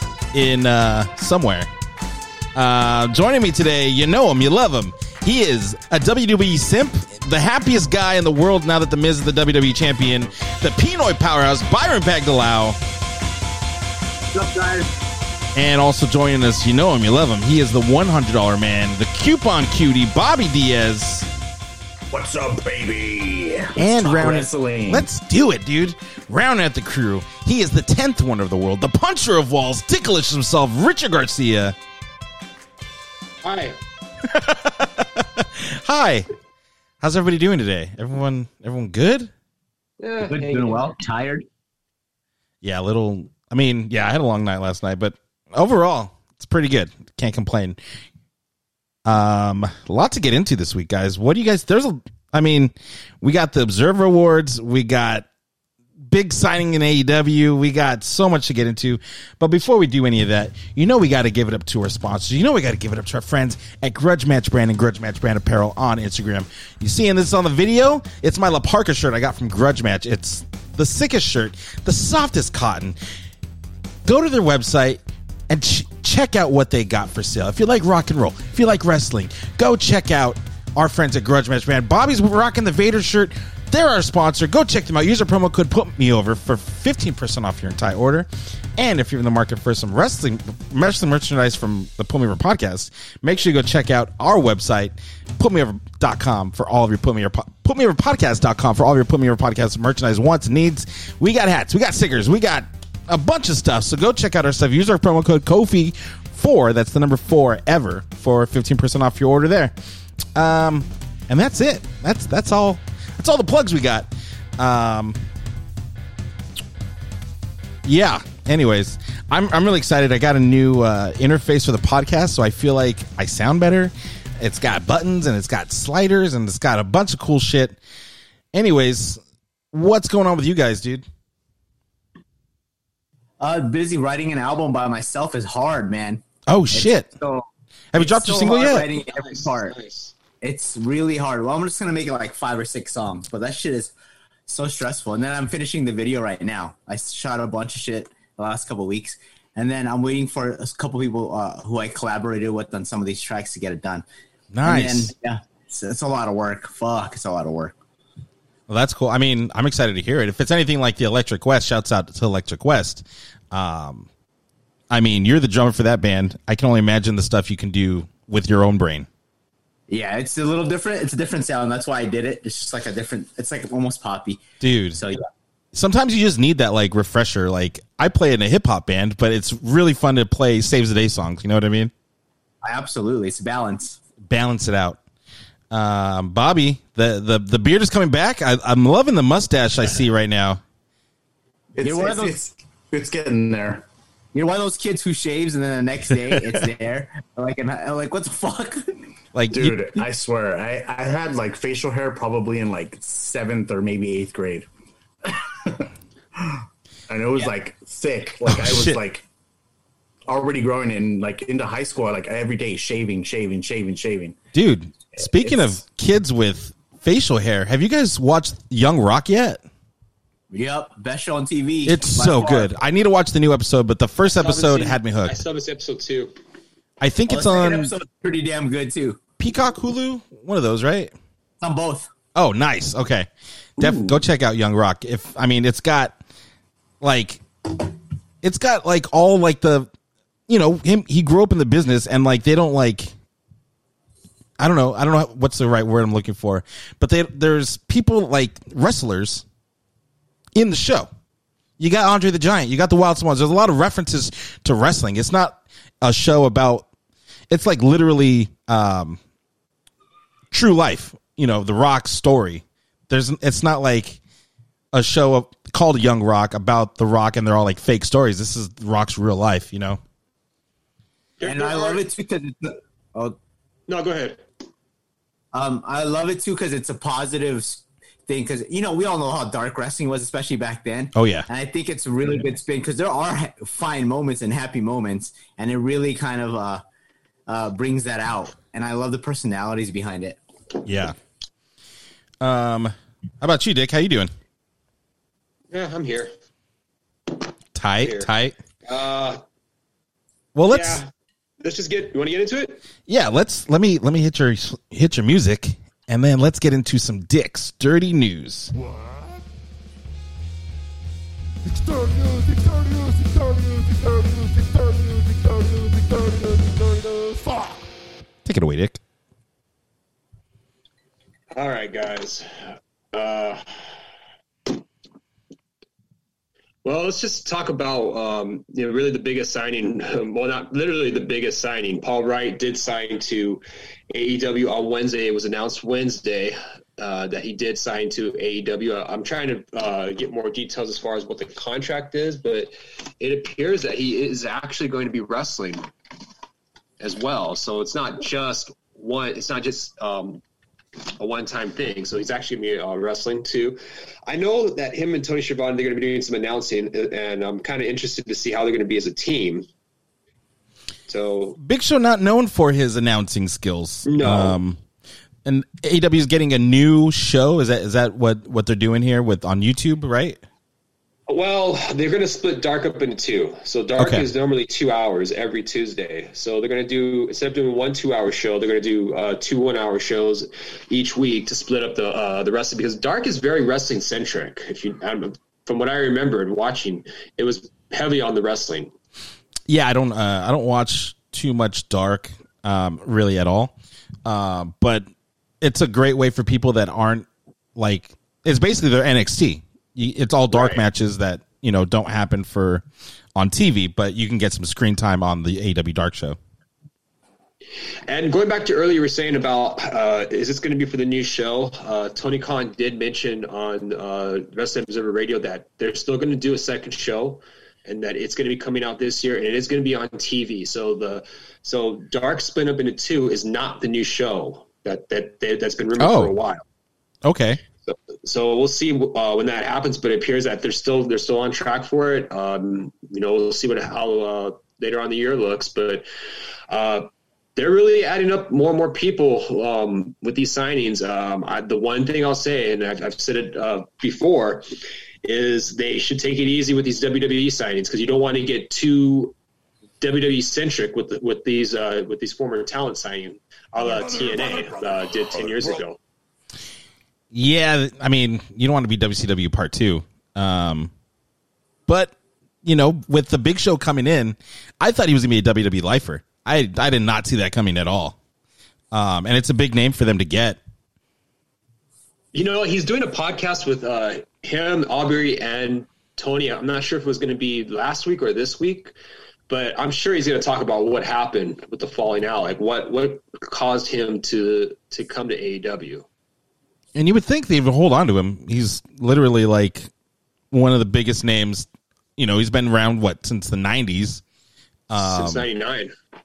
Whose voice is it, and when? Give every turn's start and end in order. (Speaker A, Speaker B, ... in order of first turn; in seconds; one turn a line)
Speaker A: 0.3-1.7
Speaker A: 2.5-12.8
Speaker B: 14.3-14.9
Speaker A: 15.6-21.3
Speaker C: 22.1-25.1
Speaker A: 23.8-31.8
Speaker D: 33.4-33.8
Speaker A: 34.2-36.3
Speaker A: 37.0-39.3
Speaker D: 40.0-40.8
Speaker B: 40.2-41.5
Speaker A: 42.6-47.8
Speaker A: 49.1-55.3
Speaker A: 56.0-73.0
Speaker A: 74.1-109.7
Speaker A: 110.3-115.2
Speaker A: 117.8-127.8
Speaker A: 128.5-129.2
Speaker A: 129.7-131.1
Speaker B: 133.4-139.8
Speaker A: 136.5-137.1
Speaker A: 137.9-138.9
Speaker D: 139.1-140.1
Speaker B: 140.4-143.9
Speaker B: 144.5-154.1
Speaker A: 154.5-155.1
Speaker B: 154.6-157.7
Speaker A: 158.7-164.1
Speaker A: 164.9-169.1
Speaker B: 169.9-175.3
Speaker A: 174.6-175.0
Speaker A: 175.7-181.9
Speaker B: 182.7-184.0
Speaker A: 184.2-185.0
Speaker A: 185.7-190.6
Speaker C: 191.8-193.8
Speaker B: 191.8-192.4
Speaker B: 194.3-198.8
Speaker A: 199.3-200.0
Speaker C: 199.5-204.7
Speaker C: 205.2-209.2
Speaker A: 208.4-209.0
Speaker C: 210.3-214.4
Speaker A: 214.5-219.6
Speaker B: 215.4-215.7
Speaker B: 220.5-222.7
Speaker A: 221.8-225.4
Speaker D: 224.3-226.3
Speaker A: 227.0-227.9
Speaker B: 227.3-229.2
Speaker A: 229.4-231.1
Speaker B: 231.6-232.1
Speaker A: 232.3-236.2
Speaker A: 237.0-237.4
Speaker A: 238.4-239.9
Speaker A: 240.5-243.1
Speaker A: 244.6-249.4
Speaker A: 250.6-251.1
Speaker A: 251.8-256.9
Speaker A: 257.5-259.2
Speaker A: 260.5-264.2
Speaker A: 264.9-270.0
Speaker D: 271.4-272.0
Speaker B: 271.4-273.4
Speaker D: 273.9-274.4
Speaker B: 275.5-286.8
Speaker A: 281.1-281.5
Speaker B: 287.5-290.4
Speaker A: 290.9-291.1
Speaker A: 292.4-294.3
Speaker D: 295.7-296.3
Speaker A: 297.8-298.6
Speaker D: 298.0-298.3
Speaker D: 298.9-299.4
Speaker A: 300.6-301.0
Speaker D: 300.7-301.1
Speaker D: 301.6-302.8
Speaker A: 303.1-308.7
Speaker A: 311.7-317.8
Speaker A: 318.4-319.0
Speaker D: 321.6-322.5
Speaker D: 323.1-323.6
Speaker D: 326.8-345.8
Speaker D: 347.0-350.4
Speaker D: 351.2-359.7
Speaker D: 361.1-361.6
Speaker A: 361.6-364.8
Speaker D: 364.1-364.6
Speaker A: 365.4-370.4
Speaker D: 371.3-388.9
Speaker A: 374.0-374.3
Speaker A: 389.7-393.7
Speaker A: 394.2-395.1
Speaker A: 395.6-402.8
Speaker D: 400.5-400.8
Speaker A: 403.4-406.4
Speaker D: 408.1-426.6
Speaker A: 426.0-426.4
Speaker A: 427.2-427.6
Speaker D: 427.9-436.1
Speaker D: 436.7-444.7
Speaker D: 445.2-449.3
Speaker D: 450.0-456.0
Speaker C: 453.8-455.8
Speaker A: 457.3-460.9
Speaker A: 461.9-462.1
Speaker A: 462.6-468.2
Speaker A: 468.9-470.6
Speaker D: 472.3-478.9
Speaker D: 479.5-486.1
Speaker A: 486.9-489.9
Speaker A: 490.5-494.2
Speaker A: 494.9-495.5
Speaker D: 494.9-495.9